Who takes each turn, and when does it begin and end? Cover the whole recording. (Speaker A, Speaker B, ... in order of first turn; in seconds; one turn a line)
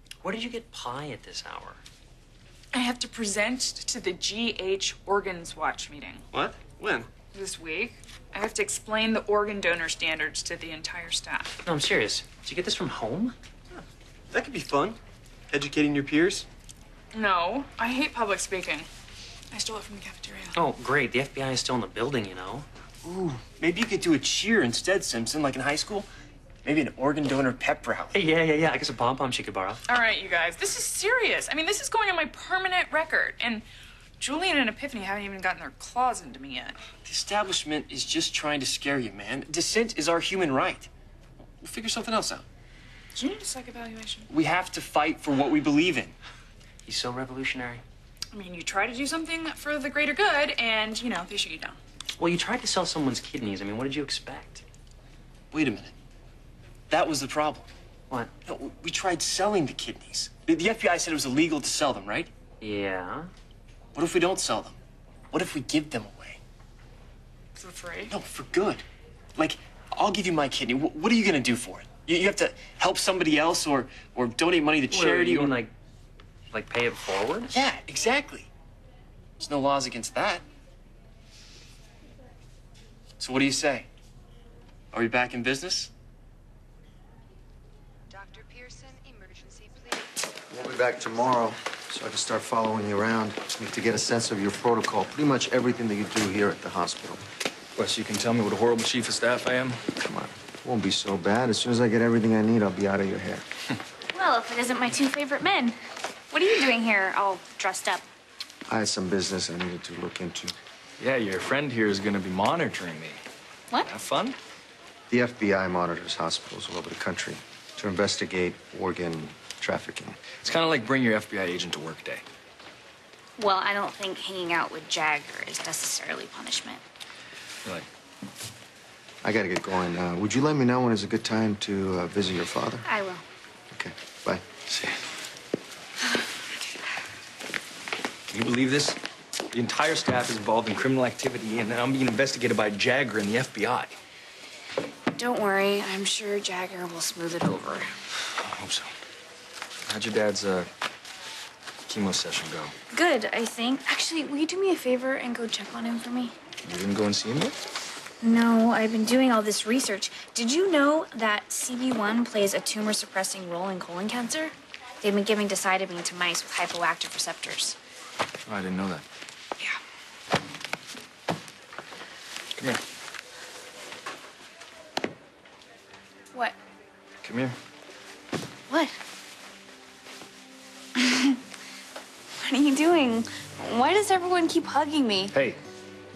Speaker A: 0.2-1.8
Speaker B: 2.7-6.2
Speaker C: 6.3-7.1
Speaker B: 7.3-11.6
Speaker A: 11.6-13.4
Speaker C: 13.7-15.0
Speaker C: 15.5-16.5
Speaker B: 17.1-18.9
Speaker B: 19.5-20.6
Speaker A: 20.6-22.7
Speaker C: 23.0-26.1
Speaker C: 26.6-28.1
Speaker A: 28.1-29.8
Speaker B: 29.9-33.6
Speaker B: 34.2-36.8
Speaker C: 37.0-40.9
Speaker C: 41.6-42.5
Speaker B: 43.2-44.3
Speaker C: 44.3-46.1
Speaker A: 46.9-47.8
Speaker B: 48.3-51.8
Speaker A: 52.2-54.6
Speaker C: 55.5-56.0
Speaker C: 56.9-57.7
Speaker C: 58.5-62.3
Speaker A: 62.6-63.3
Speaker C: 64.0-64.8
Speaker C: 65.3-66.4
Speaker B: 67.6-68.1
Speaker C: 68.1-68.8
Speaker C: 69.4-75.6
Speaker A: 74.9-75.7
Speaker A: 76.5-77.6
Speaker C: 77.5-78.5
Speaker C: 79.4-80.4
Speaker C: 83.2-83.9
Speaker C: 84.9-85.9
Speaker D: 90.5-97.2
Speaker E: 97.8-99.8
Speaker D: 100.0-103.4
Speaker F: 104.1-105.8
Speaker F: 106.3-108.0
Speaker D: 108.7-110.5
Speaker E: 111.0-113.2
Speaker E: 113.8-114.4
Speaker D: 115.1-120.2
Speaker E: 120.4-122.2
Speaker F: 123.4-126.8
Speaker D: 129.2-132.9
Speaker F: 132.8-133.2
Speaker D: 133.7-134.4
Speaker E: 134.7-135.0
Speaker F: 136.1-136.7
Speaker E: 138.3-139.0
Speaker E: 139.5-143.9
Speaker F: 145.2-147.9
Speaker E: 148.3-148.9
Speaker E: 149.9-150.7
Speaker E: 151.9-152.7
Speaker F: 152.9-156.3
Speaker E: 156.6-157.6
Speaker F: 158.2-167.8
Speaker E: 168.5-169.0
Speaker E: 177.2-177.6
Speaker F: 178.7-179.0
Speaker F: 181.0-181.4
Speaker F: 182.4-185.3
Speaker E: 185.3-185.6